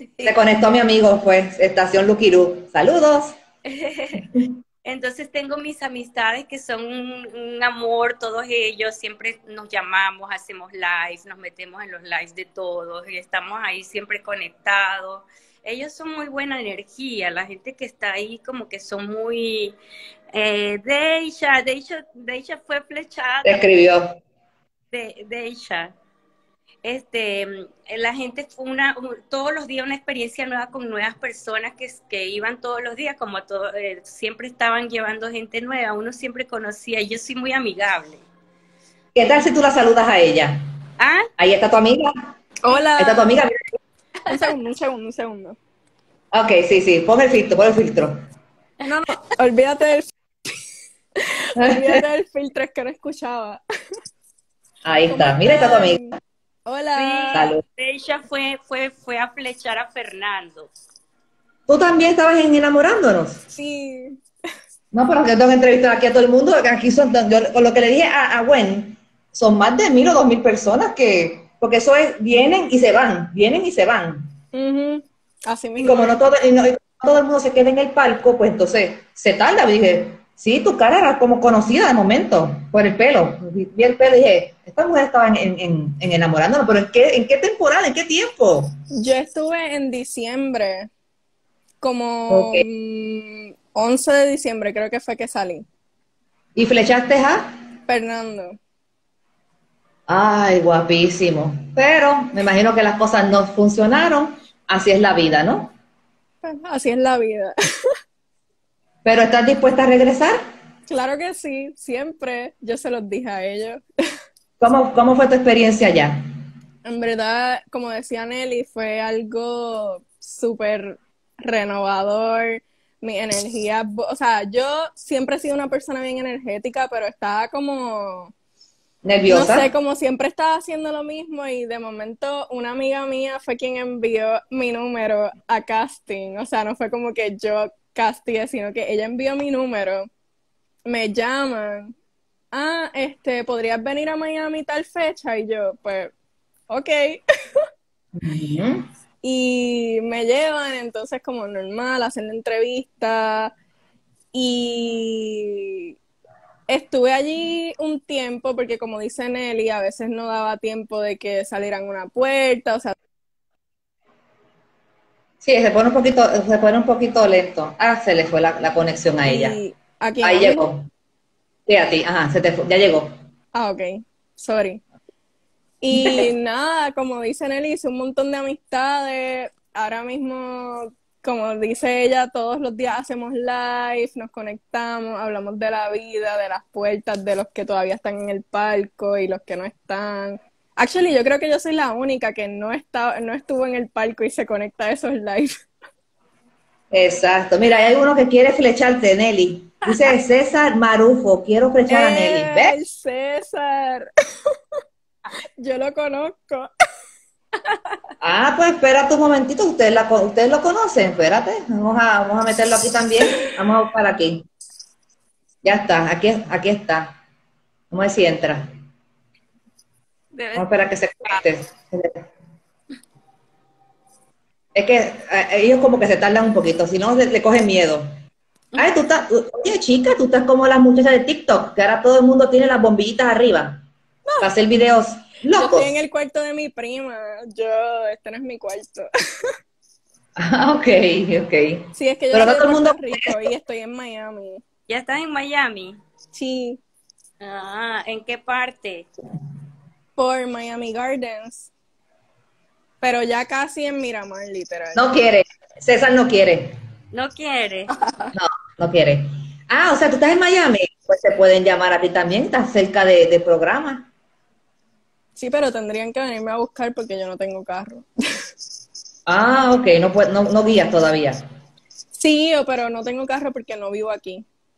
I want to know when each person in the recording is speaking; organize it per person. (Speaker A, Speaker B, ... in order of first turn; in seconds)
Speaker A: 0.2-3.4, 4.2-4.5, 23.4-24.2, 39.1-40.6, 41.4-42.3, 43.0-43.8, 46.3-48.2, 51.6-52.0, 54.8-56.2, 57.3-57.6, 61.7-63.5, 64.9-74.3, 75.8-88.7, 92.3-92.6, 96.6-97.6, 100.1-105.7, 109.0-110.4, 114.6-116.2, 129.0-129.7, 148.2-148.9, 165.4-169.6, 170.2-170.9, 171.7-173.1, 175.9-176.2, 196.9-202.8, 208.2-214.5, 215.6-217.2, 217.9-218.7, 220.6-222.3, 224.8-228.1, 228.8-233.8, 234.4-236.0, 240.4-243.4, 254.9-256.8, 258.4-264.1, 269.3-271.4
Speaker B: 3.6-4.3, 4.8-19.8, 20.3-23.6, 24.9-25.9, 26.8-38.2, 41.0-41.3, 57.0-60.7, 220.3-220.7, 244.9-246.0, 247.4-249.1, 257.1-258.3
Speaker C: 42.6-43.3, 44.3-45.6, 48.9-50.5, 51.2-53.6, 55.1-56.1, 56.7-57.5, 63.5-64.2, 74.5-76.1, 89.0-90.9, 91.8-95.7, 97.9-98.6, 106.4-107.9, 110.9-113.8, 116.8-128.3, 129.3-140.1, 140.9-141.9, 142.5-146.1, 146.7-147.6, 149.2-153.5, 154.3-155.9, 156.7-162.9, 169.2-170.7, 173.6-174.8, 175.8-195.5, 201.9-204.8, 205.6-206.7, 235.5-239.5, 241.9-244.6, 246.3-246.8, 250.2-251.7, 253.0-255.0, 265.4-268.1, 272.1-274.5